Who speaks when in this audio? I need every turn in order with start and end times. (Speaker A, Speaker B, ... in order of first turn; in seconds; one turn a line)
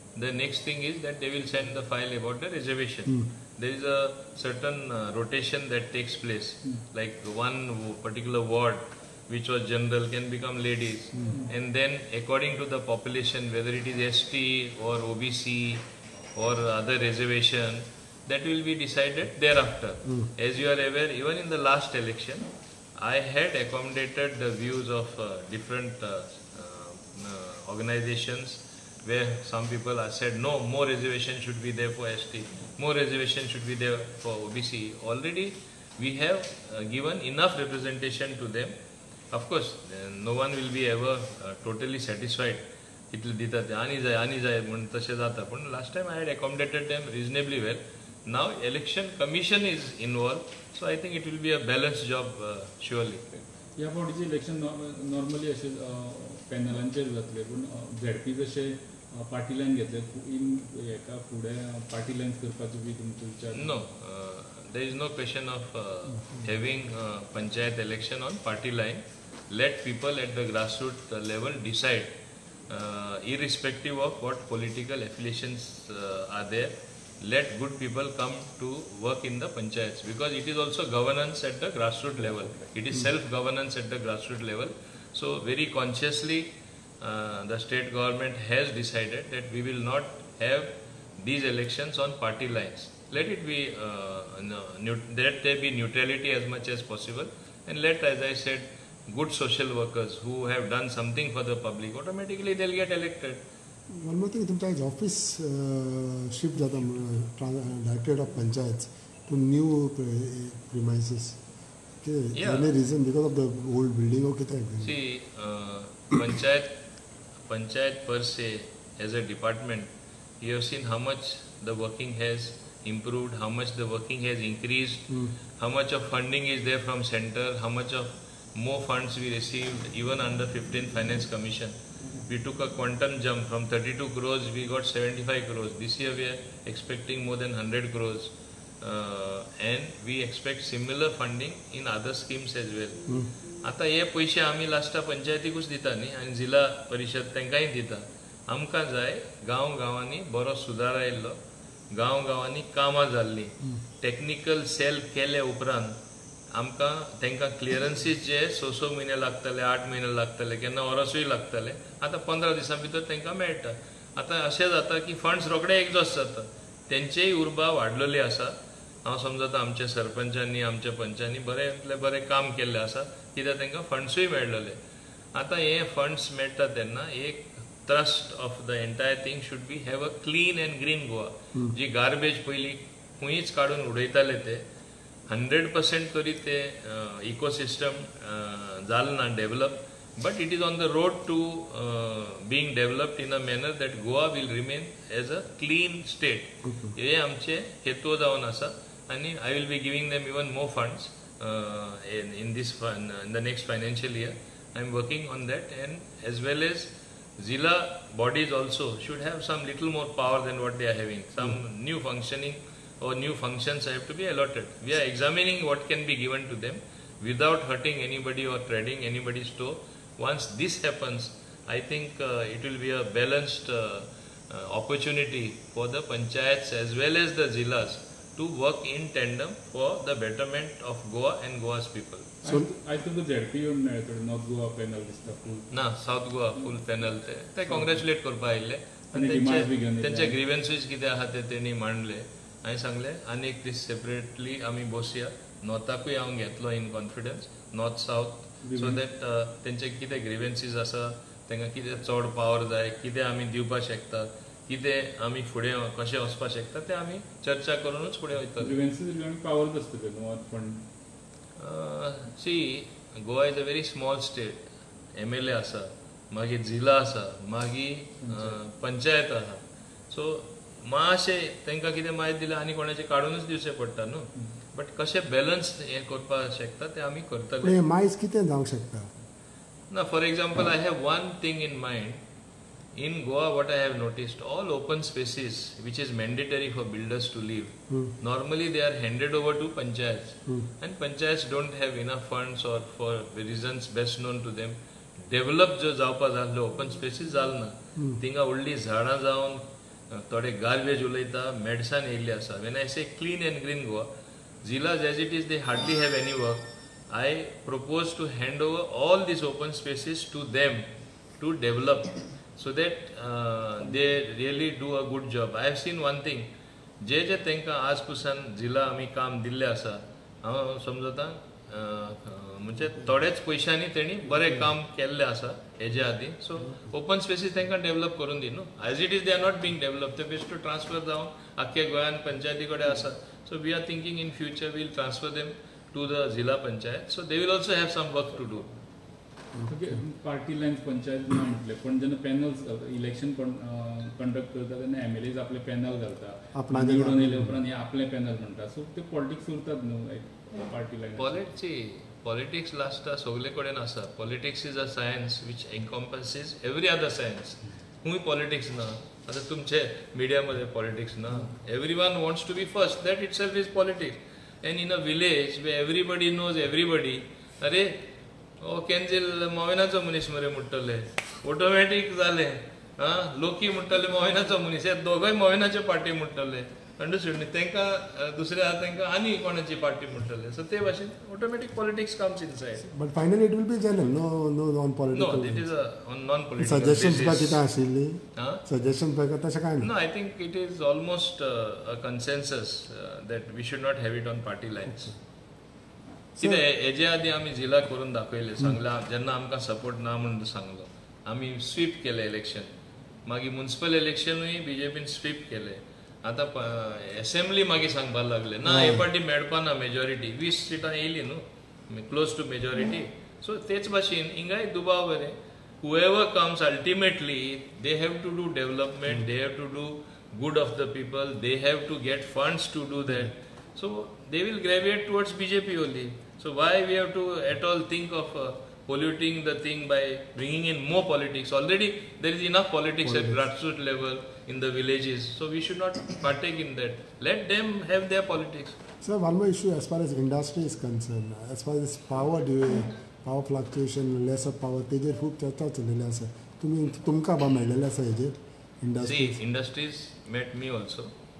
Speaker A: 0.1-15.8
Speaker A: 16.3-38.7
Speaker A: 39.3-53.4
Speaker B: 53.8-63.7
Speaker A: 63.5-72.1
Speaker A: 72.7-86.5
Speaker A: 87.0-103.4
Speaker C: 103.9-111.4
Speaker C: 112.0-114.9
Speaker A: 112.3-112.7
Speaker A: 114.8-116.7
Speaker A: 117.5-119.9
Speaker A: 120.4-151.4
Speaker A: 151.9-156.0
Speaker A: 156.5-174.8
Speaker A: 175.3-184.6
Speaker A: 185.3-232.3
Speaker C: 196.7-196.9
Speaker B: 232.4-235.7
Speaker A: 235.7-258.8
Speaker B: 237.7-238.0
Speaker B: 239.1-240.4
Speaker B: 248.6-249.0
Speaker B: 258.6-260.8
Speaker A: 261.6-277.8
Speaker B: 268.2-268.6
Speaker C: 277.6-279.1
Speaker A: 279.9-282.2
Speaker A: 282.9-304.1
Speaker A: 304.6-310.8
Speaker A: 311.4-316.5
Speaker A: 317.0-338.6
Speaker B: 339.6-351.5
Speaker C: 346.5-347.6
Speaker A: 351.2-368.0
Speaker A: 368.6-382.8
Speaker C: 382.8-385.7
Speaker A: 385.1-387.6
Speaker C: 386.6-389.9
Speaker A: 388.4-388.6
Speaker A: 389.8-395.1
Speaker A: 396.4-402.7
Speaker A: 403.2-438.8
Speaker C: 408.6-409.0
Speaker C: 433.0-433.4
Speaker C: 439.0-449.4
Speaker A: 449.0-451.1